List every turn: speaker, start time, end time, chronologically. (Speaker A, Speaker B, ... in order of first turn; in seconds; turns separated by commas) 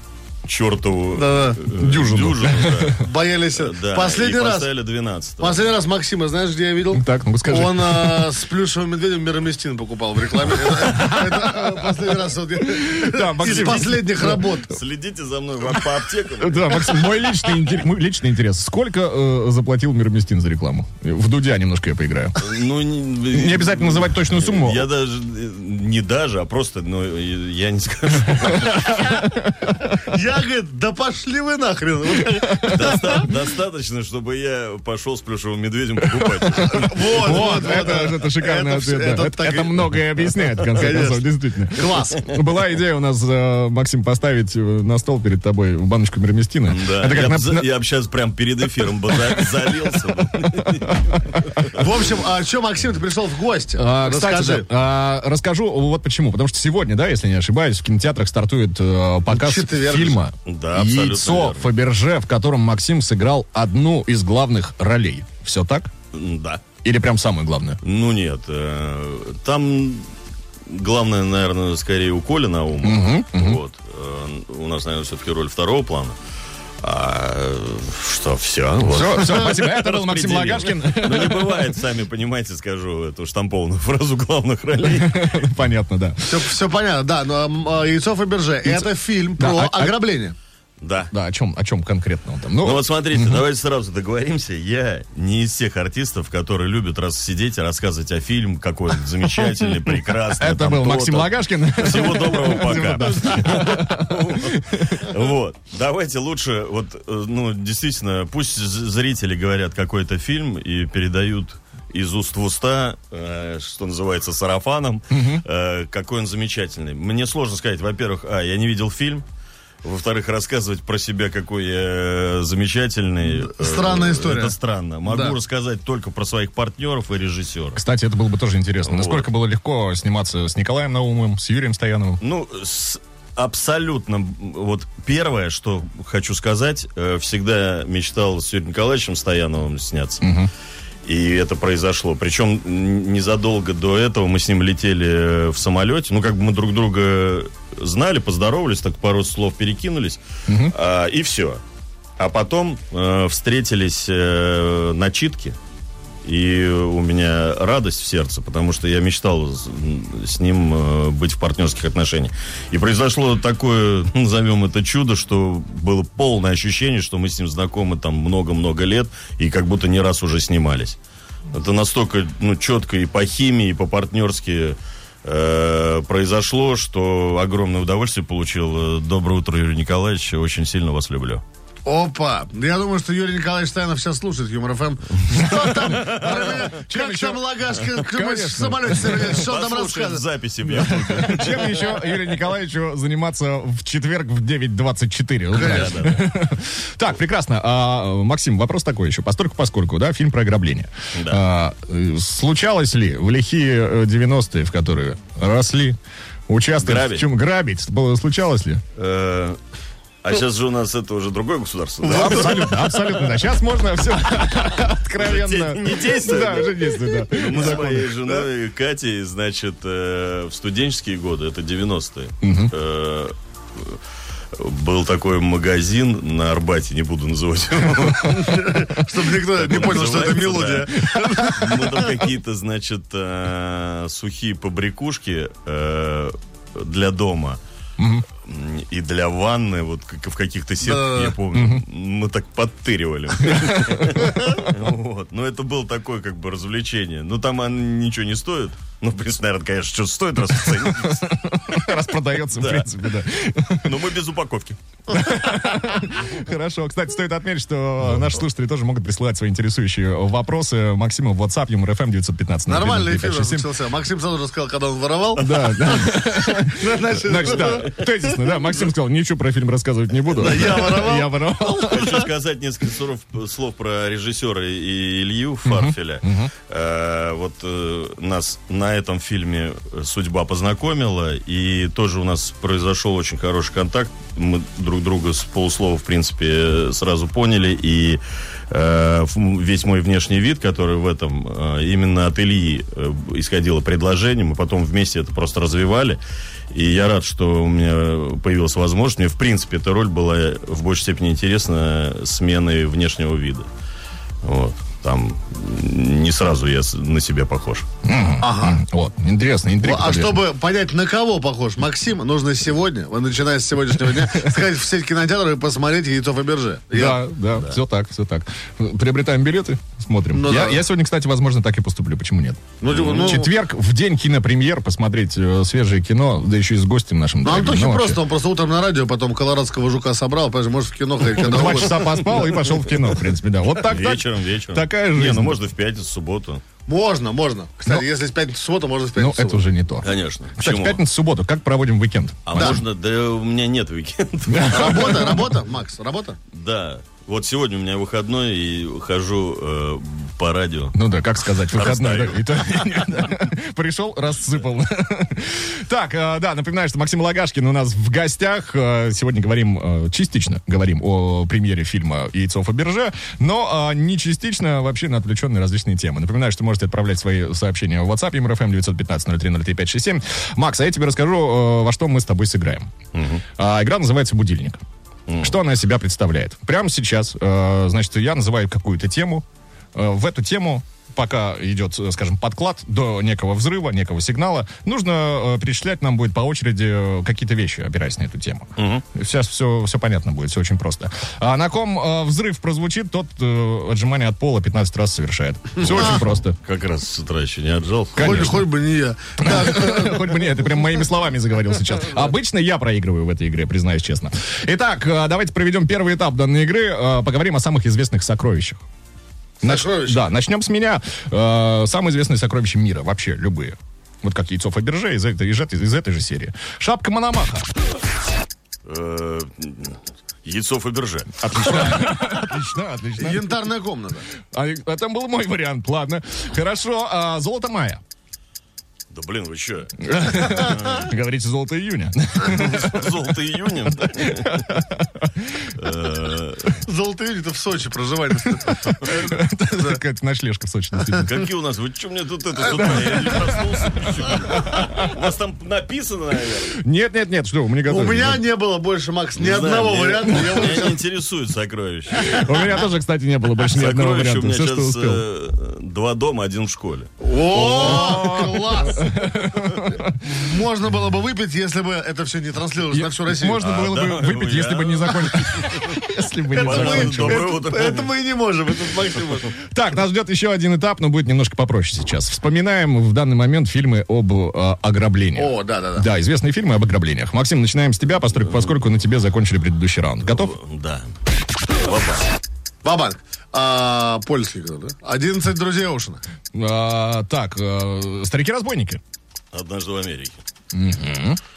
Speaker A: 0.5-3.0, Speaker B: 1.1-1.6, Speaker C: 1.7-3.0, Speaker B: 3.0-4.7, Speaker A: 3.5-5.7, Speaker B: 5.4-14.7, Speaker C: 6.9-8.3, Speaker C: 10.6-11.7, Speaker C: 12.7-14.5, Speaker A: 13.4-17.3, Speaker C: 16.4-22.4, Speaker A: 22.4-29.3, Speaker C: 23.3-24.9, Speaker C: 28.6-29.9, Speaker B: 30.1-33.0, Speaker C: 32.4-33.3, Speaker A: 32.7-37.8, Speaker C: 36.1-47.6, Speaker B: 36.6-39.9, Speaker B: 40.7-42.2, Speaker A: 46.7-51.9, Speaker B: 51.8-54.7, Speaker C: 53.8-65.9, Speaker B: 59.3-60.2, Speaker A: 60.5-61.7, Speaker A: 66.1-66.6, Speaker C: 66.8-67.8, Speaker A: 67.8-70.0, Speaker A: 70.7-76.2, Speaker C: 72.8-73.6, Speaker A: 76.8-85.4, Speaker C: 78.8-81.7, Speaker C: 84.8-86.5, Speaker B: 86.2-90.3, Speaker C: 89.4-90.0, Speaker A: 90.8-91.1, Speaker C: 91.1-93.3, Speaker A: 92.6-119.2, Speaker C: 100.4-105.1, Speaker C: 115.1-115.4, Speaker A: 119.8-127.8, Speaker B: 123.3-125.4, Speaker C: 127.8-132.2, Speaker A: 128.8-129.3, Speaker A: 132.2-140.3, Speaker C: 140.2-140.5, Speaker A: 141.0-151.6, Speaker C: 150.5-150.7, Speaker A: 152.2-155.6, Speaker A: 156.2-171.0, Speaker A: 171.5-181.4, Speaker B: 181.8-190.2, Speaker C: 185.3-189.4, Speaker A: 185.9-186.8, Speaker A: 189.2-192.3, Speaker C: 190.7-208.8, Speaker A: 195.5-196.3, Speaker A: 201.1-201.4, Speaker A: 206.8-207.2, Speaker A: 208.9-209.6, Speaker A: 210.2-213.3, Speaker C: 212.0-218.1, Speaker A: 215.2-224.0, Speaker C: 222.4-222.7, Speaker A: 224.5-237.6, Speaker B: 228.3-231.6, Speaker C: 231.3-231.8, Speaker C: 238.0-238.2, Speaker A: 238.4-251.3, Speaker B: 240.8-241.3, Speaker C: 241.5-241.8, Speaker C: 243.5-244.3, Speaker C: 250.5-254.0, Speaker A: 252.5-252.9, Speaker A: 253.8-254.8, Speaker C: 255.1-263.7, Speaker A: 258.1-258.3, Speaker B: 262.6-268.4, Speaker C: 265.4-272.2, Speaker A: 265.4-265.7, Speaker A: 267.7-268.1, Speaker B: 270.3-272.2, Speaker A: 271.4-303.7, Speaker C: 275.6-276.5, Speaker A: 304.4-307.9, Speaker C: 308.0-310.4, Speaker B: 308.4-308.8, Speaker B: 309.8-317.2, Speaker C: 316.9-322.6, Speaker A: 317.5-317.8, Speaker B: 320.3-320.9, Speaker B: 322.8-323.5, Speaker A: 322.9-323.3, Speaker C: 323.1-328.2, Speaker B: 327.4-332.4, Speaker C: 331.2-335.6, Speaker A: 332.2-332.5, Speaker A: 333.7-336.6, Speaker B: 336.9-339.7, Speaker C: 339.2-342.5, Speaker A: 340.0-341.0, Speaker A: 342.4-345.4, Speaker B: 342.5-342.8, Speaker C: 344.5-345.5, Speaker B: 344.7-346.4, Speaker A: 346.5-353.3, Speaker C: 350.9-372.9, Speaker A: 373.1-373.4, Speaker C: 373.6-374.8, Speaker A: 375.3-375.6, Speaker C: 375.4-396.6, Speaker A: 388.8-389.0, Speaker A: 395.8-398.6, Speaker B: 395.8-396.2, Speaker C: 398.1-398.7, Speaker B: 398.2-400.4, Speaker C: 399.4-408.8, Speaker C: 409.6-417.7, Speaker B: 409.6-410.2, Speaker A: 418.9-422.1, Speaker C: 421.4-423.7, Speaker B: 423.2-424.3, Speaker C: 424.5-428.0, Speaker A: 429.1-431.1, Speaker C: 430.0-433.4, Speaker A: 432.4-434.6, Speaker C: 434.1-435.3, Speaker A: 435.7-436.8, Speaker B: 436.8-440.0, Speaker C: 438.5-441.4, Speaker A: 441.1-446.8, Speaker C: 442.6-445.0, Speaker C: 446.7-448.4, Speaker B: 447.9-451.0, Speaker A: 449.3-452.9, Speaker C: 450.2-450.7, Speaker C: 452.1-455.2, Speaker A: 453.6-458.5, Speaker B: 457.2-459.2, Speaker C: 457.5-460.1, Speaker A: 459.5-459.9, Speaker B: 460.2-463.6, Speaker C: 462.9-467.5, Speaker A: 463.6-466.0, Speaker A: 466.5-468.1, Speaker B: 466.6-469.5, Speaker C: 469.7-480.5, Speaker B: 475.3-476.1, Speaker A: 478.5-478.7, Speaker A: 480.2-481.1, Speaker A: 481.7-482.3, Speaker B: 482.8-486.2, Speaker C: 486.5-489.0, Speaker A: 489.5-490.4, Speaker C: 490.7-491.4